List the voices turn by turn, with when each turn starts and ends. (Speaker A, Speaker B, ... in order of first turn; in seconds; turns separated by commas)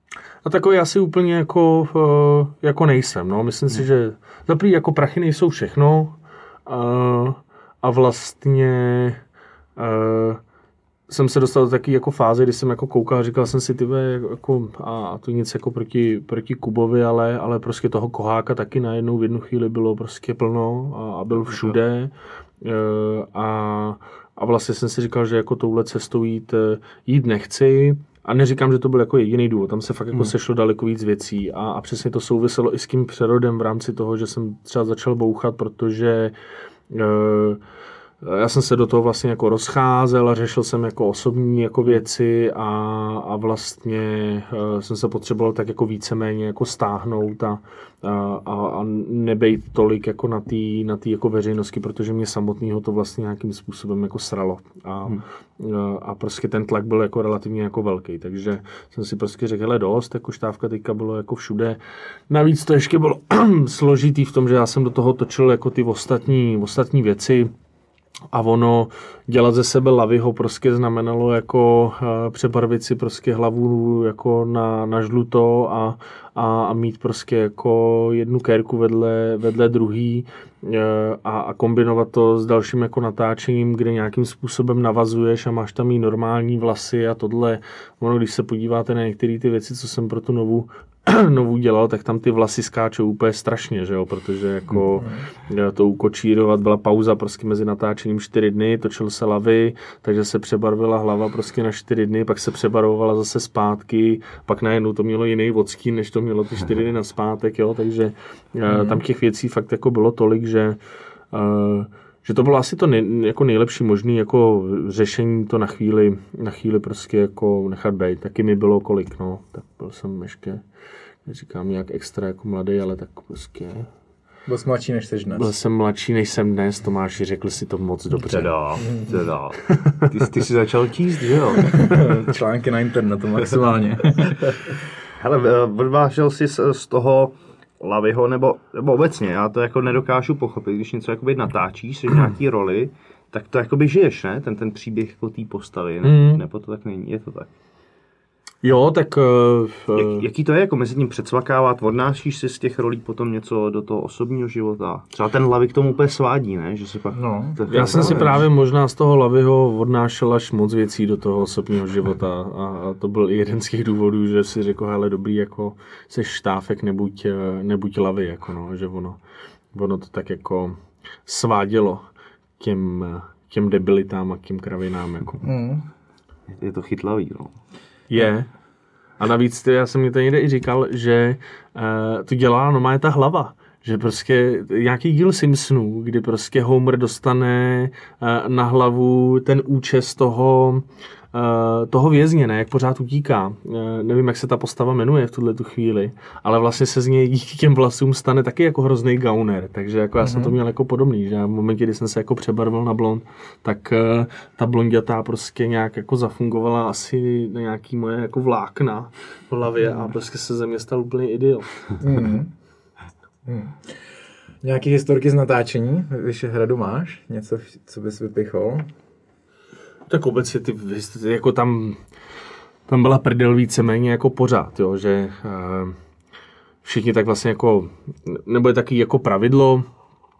Speaker A: 0.4-9.2, Speaker A: 9.8-10.4, Speaker A: 11.1-36.3, Speaker A: 36.9-37.6, Speaker A: 38.2-67.5, Speaker A: 68.3-110.8, Speaker B: 94.9-95.2, Speaker B: 108.7-109.0, Speaker A: 111.3-120.6, Speaker A: 121.2-123.9, Speaker B: 124.5-125.5, Speaker A: 125.3-128.5, Speaker C: 128.3-132.0, Speaker A: 129.7-130.0, Speaker B: 131.7-134.4, Speaker C: 135.1-147.5, Speaker A: 146.0-146.4, Speaker A: 148.6-150.2, Speaker C: 149.9-158.4, Speaker B: 157.1-158.4, Speaker A: 157.7-169.2, Speaker A: 169.7-172.0, Speaker A: 172.6-175.4, Speaker B: 175.4-175.9, Speaker C: 176.5-177.6, Speaker A: 178.1-178.5, Speaker A: 179.2-211.9, Speaker B: 200.2-200.5, Speaker B: 212.0-212.5, Speaker B: 213.4-214.0, Speaker B: 214.6-218.9, Speaker A: 220.1-222.0, Speaker A: 222.9-225.9, Speaker A: 226.8-229.9